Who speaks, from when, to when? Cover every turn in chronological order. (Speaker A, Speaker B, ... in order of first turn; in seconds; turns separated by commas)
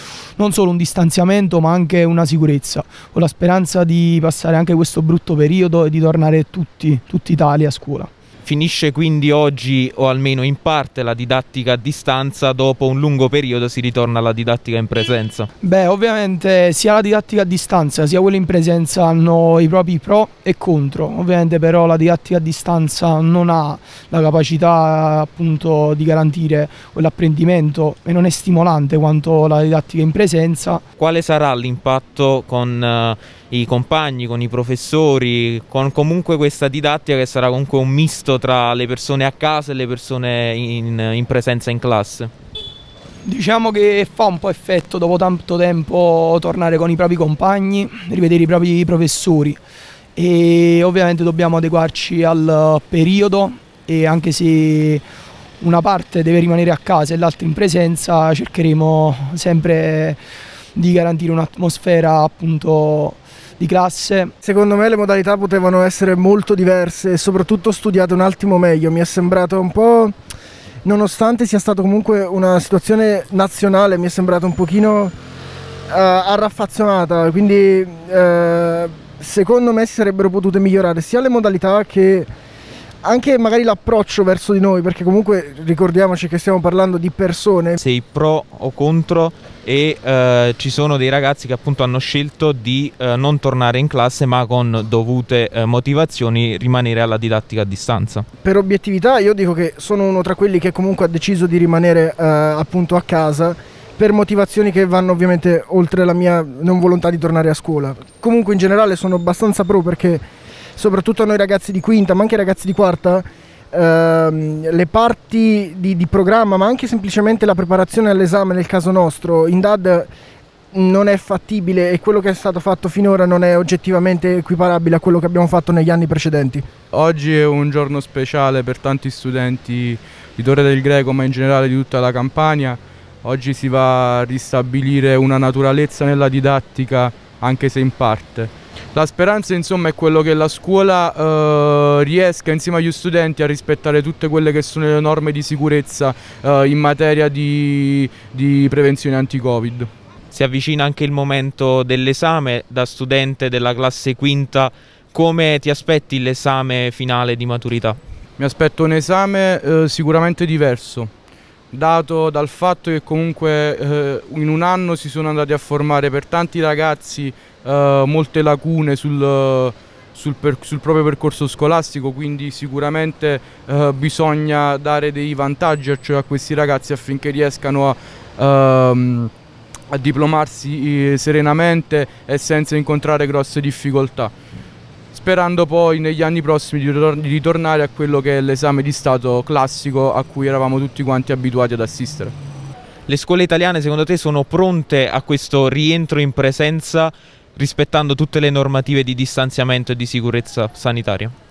Speaker A: 0.3-8.1, Speaker B: 8.4-15.5, Speaker A: 15.6-30.8, Speaker B: 31.0-42.3, Speaker A: 43.2-49.6, Speaker A: 50.1-55.0, Speaker A: 55.6-60.2, Speaker A: 60.8-64.3, Speaker C: 64.4-70.1, Speaker C: 70.8-75.1, Speaker C: 75.9-82.3, Speaker C: 83.0-87.8, Speaker B: 87.8-98.2, Speaker C: 98.4-110.2, Speaker C: 110.8-120.1, Speaker C: 120.7-126.6, Speaker D: 126.9-149.9, Speaker B: 150.3-158.0, Speaker D: 158.4-161.1, Speaker D: 161.7-179.3, Speaker D: 179.9-184.3, Speaker D: 185.1-192.3, Speaker B: 193.1-201.3